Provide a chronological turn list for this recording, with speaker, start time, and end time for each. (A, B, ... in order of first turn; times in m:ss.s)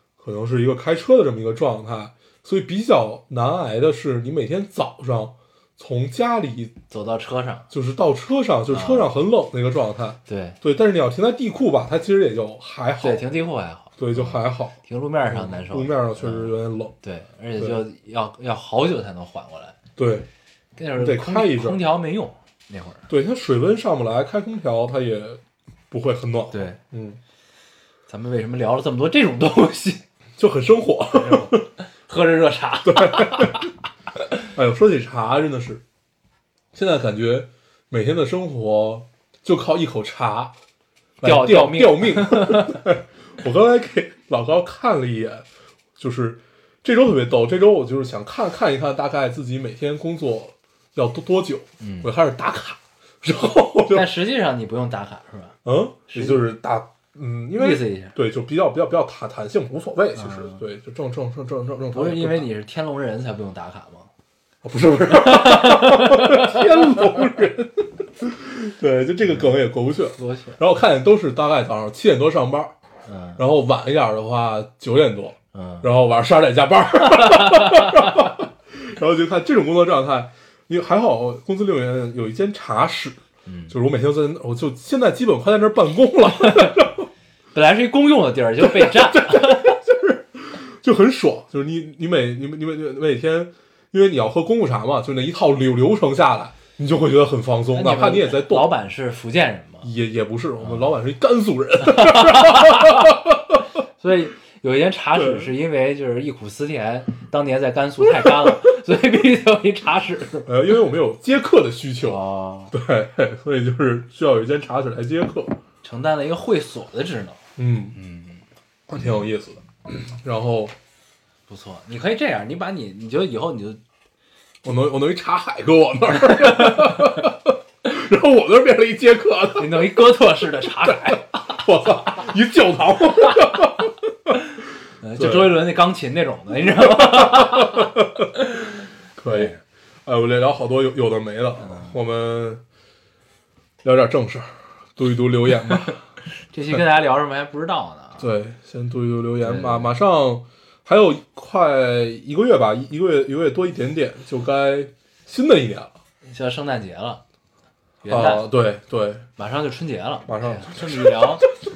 0:00.2-0:06.7 A
0:06.9-0:07.7 B
0:07.7-0:13.2 A
0:08.7-0:09.1 B
0:10.3-0:10.6 B
0:13.0-0:19.8 B
0:14.0-0:16.9 A
0:20.0-0:20.3 A
0:20.8-0:23.1 B
0:21.0-0:21.8 A
0:23.1-0:27.2 A
0:26.5-0:26.8 B
0:28.1-0:30.0 B
0:30.4-0:31.7 A
0:31.1-0:33.7 B
0:32.8-0:33.7 A
0:34.5-0:35.8 A
0:36.7-0:40.5 A
0:41.2-0:45.4 A
0:41.2-0:42.8 B
0:46.0-0:54.1 A
0:51.8-0:52.1 B
0:53.9-0:55.6 B
0:55.6-1:02.5 A
0:56.1-0:56.4 B
0:57.6-0:58.2 B
1:00.2-1:00.6 B
1:01.9-1:04.1 B
1:04.6-1:12.7 A
1:05.1-1:07.0 B
1:09.2-1:09.5 B
1:10.2-1:10.6 B
1:13.0-1:13.4 B
1:13.4-1:23.2 A
1:15.5-1:15.9 B
1:17.1-1:18.3 B
1:23.4-1:23.7 B
1:23.7-1:27.1 A
1:26.4-1:26.8 B
1:27.5-1:29.8 B
1:28.6-1:38.7 A
1:37.7-1:39.9 B
1:39.8-1:43.6 A
1:40.6-1:41.0 B
1:41.8-1:43.1 B
1:44.0-1:50.5 B
1:45.1-1:45.5 A
1:48.2-1:48.5 A
1:50.4-1:52.2 A
1:52.0-1:52.7 B
1:52.7-1:55.6 A
1:55.8-1:57.4 B
1:57.6-1:58.0 A
1:57.9-1:58.4 B
1:58.9-2:00.7 A
2:01.5-2:03.8 B
2:04.6-2:09.9 A
2:06.4-2:07.0 B
2:09.6-2:11.6 B
2:10.8-2:14.3 A
2:15.0-2:17.9 B
2:15.2-2:15.6 A
2:16.6-2:18.3 A
2:19.2-2:19.5 A
2:19.3-2:19.6 B
2:20.0-2:22.6 A
2:21.6-2:21.9 B
2:23.8-2:26.0 A
2:26.5-2:28.3 B
2:28.2-2:35.9 A
2:29.4-2:29.9 B
2:36.3-2:37.2 B
2:38.0-2:38.5 B
2:38.1-2:39.2 A
2:39.4-2:41.4 B
2:40.3-2:41.1 A